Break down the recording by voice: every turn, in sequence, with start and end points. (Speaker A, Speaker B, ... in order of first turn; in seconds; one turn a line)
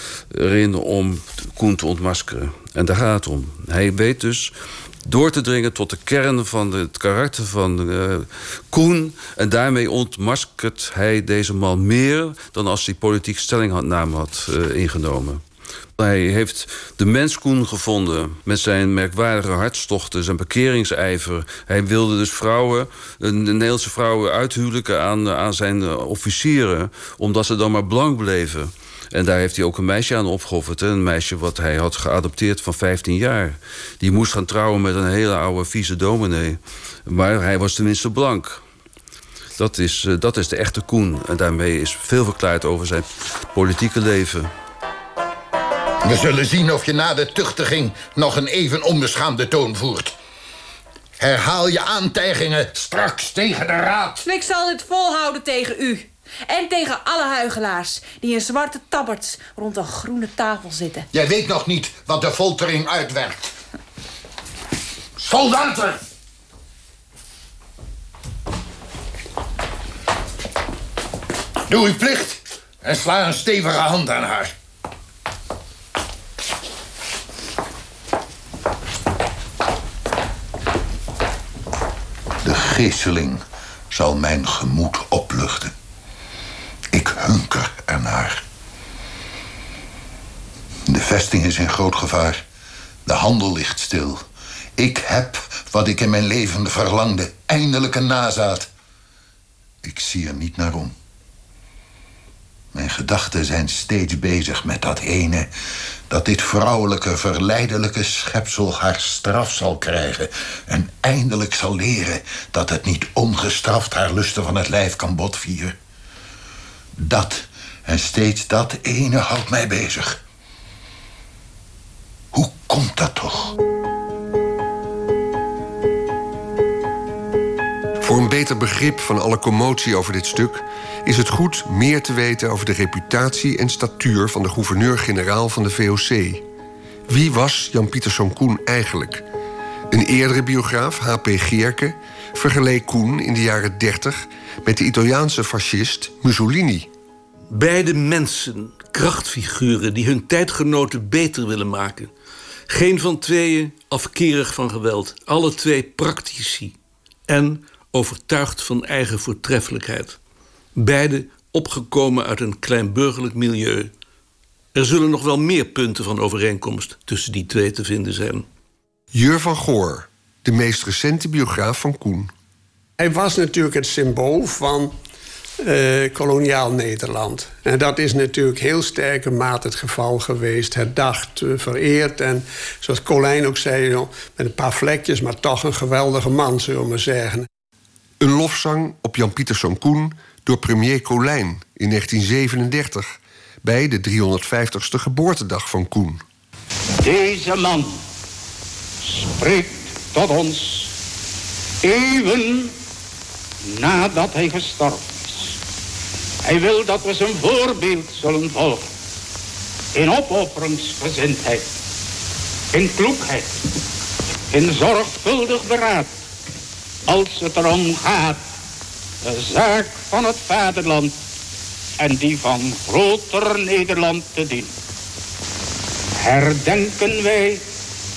Speaker A: 0.3-4.5
Speaker A: 5.0-15.4
Speaker A: 16.0-38.6
Speaker A: 39.6-44.5
Speaker B: 46.0-50.2
Speaker B: 51.2-54.2
Speaker C: 54.2-61.1
Speaker B: 61.1-63.5
Speaker B: 65.2-66.0
Speaker B: 71.7-74.5
Speaker B: 82.4-85.7
Speaker B: 86.9-88.4
Speaker B: 90.9-92.4
Speaker B: 93.1-94.2
Speaker B: 94.8-98.7
Speaker B: 99.8-101.0
Speaker B: 102.7-105.5
Speaker B: 106.1-115.8
Speaker B: 117.0-120.2
Speaker B: 122.3-123.5
Speaker D: 128.0-136.4
Speaker D: 137.1-139.2
Speaker D: 139.9-146.9
Speaker E: 147.5-152.1
Speaker E: 152.7-156.8
Speaker E: 157.3-160.2
Speaker E: 160.8-163.9
Speaker E: 164.7-168.5
Speaker D: 169.1-172.3
Speaker F: 173.0-174.9
Speaker F: 175.6-187.5
Speaker D: 188.2-196.2
Speaker G: 197.0-198.0
Speaker G: 199.0-200.9
Speaker G: 201.8-202.8
Speaker G: 203.7-205.6
Speaker G: 206.4-208.9
Speaker G: 209.9-211.7
Speaker G: 212.7-213.6
Speaker G: 214.5-216.1
Speaker G: 217.1-218.4
Speaker G: 219.2-221.2
Speaker G: 222.0-224.7
Speaker G: 226.2-227.6